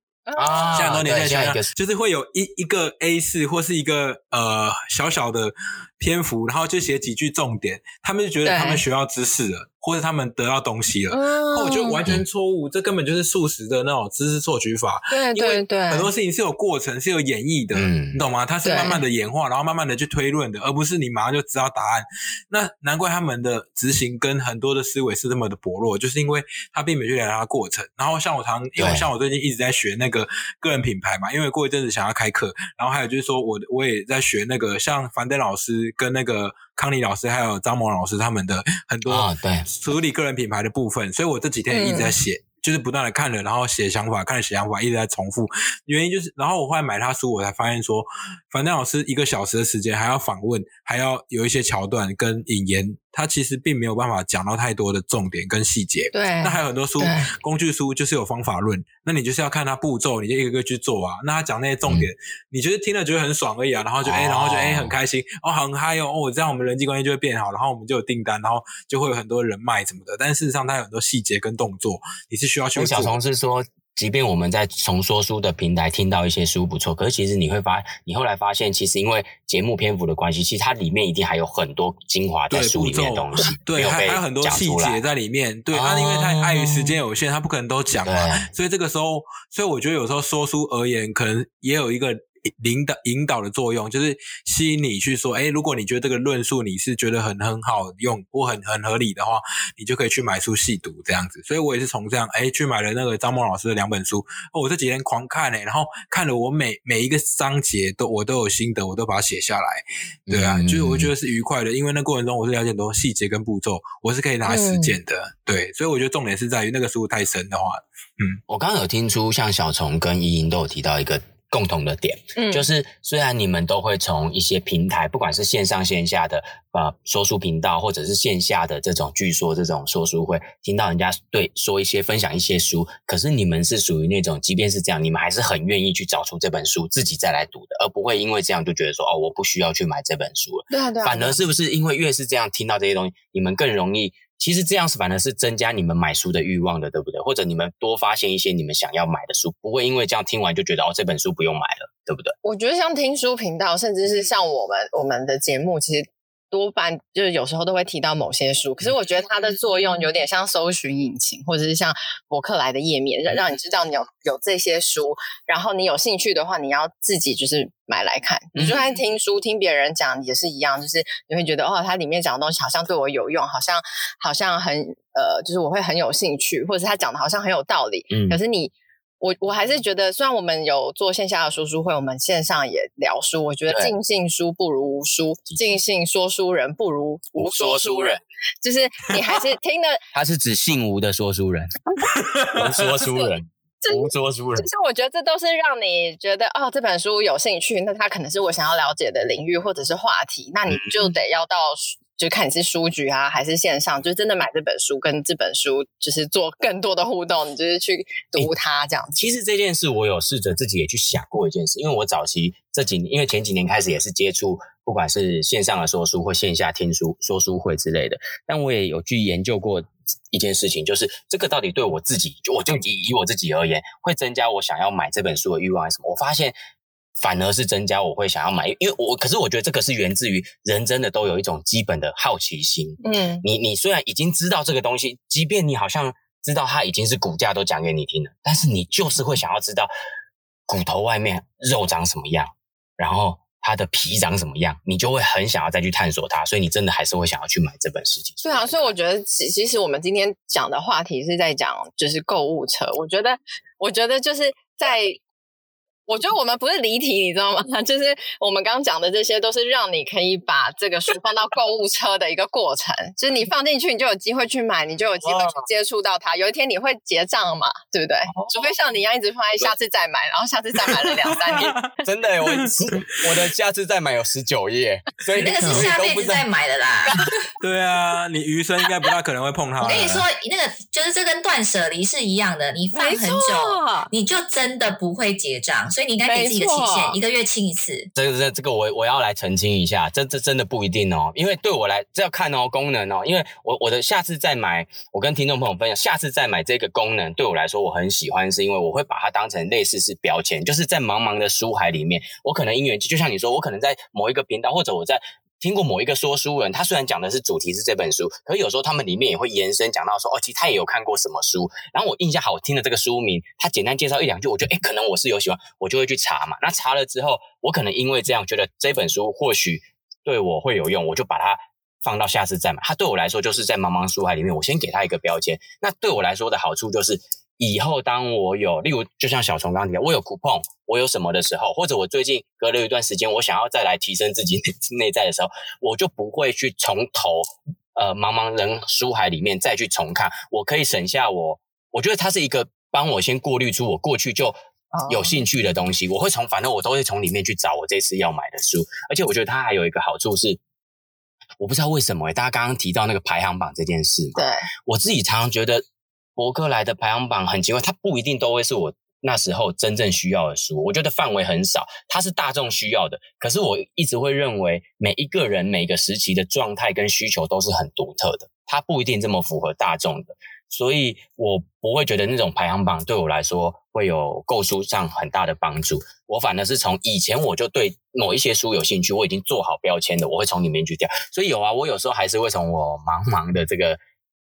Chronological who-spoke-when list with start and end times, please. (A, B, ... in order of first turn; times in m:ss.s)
0:00.3-0:01.0 A
0:00.4-0:01.7 B
0:00.7-1:13.2 C
0:08.4-0:08.8 A
0:11.1-0:12.0 A
0:15.1-0:16.1 A
0:17.7-0:18.2 B
0:18.6-0:19.0 A
0:28.8-0:29.1 B
0:39.0-0:39.7 B
0:41.7-0:42.2 A
0:56.1-0:57.3 A
1:04.0-1:04.9 B
1:12.7-1:25.0 B
1:22.5-1:58.4 C
1:25.7-1:27.0 B
1:28.0-1:28.5 B
1:50.3-1:51.1 B
1:54.4-1:55.0 A
1:58.5-2:32.3 B
2:02.4-2:02.7 A
2:20.7-2:21.4 A
2:32.4-3:10.0 A
2:48.5-2:48.8 B
2:58.1-2:58.4 B
3:05.5-3:05.7 B
3:07.3-3:08.2 B
3:10.1-3:11.7 B
3:12.1-3:12.8 C
3:12.5-3:14.7 B
3:13.8-3:29.2 A
3:20.7-3:21.1 B
3:29.1-3:46.6 B
3:47.2-3:59.9 B
3:53.0-3:53.4 A
4:00.7-4:08.9 B
4:08.4-4:15.2 A
4:16.1-4:31.8 A
4:25.2-4:25.7 B
4:28.3-4:28.7 B
4:31.0-4:31.9 C
4:32.0-4:36.5 B
4:32.4-4:32.8 C
4:35.4-4:37.4 D
4:37.6-4:40.2 C
4:39.8-4:48.1 D
4:42.9-4:44.1 A
4:46.2-4:47.2 A
4:48.1-5:44.6 B
5:44.9-5:45.4 A
5:45.1-5:50.6 B
5:51.6-5:55.8 B
5:54.3-5:54.6 A
5:56.4-6:24.0 B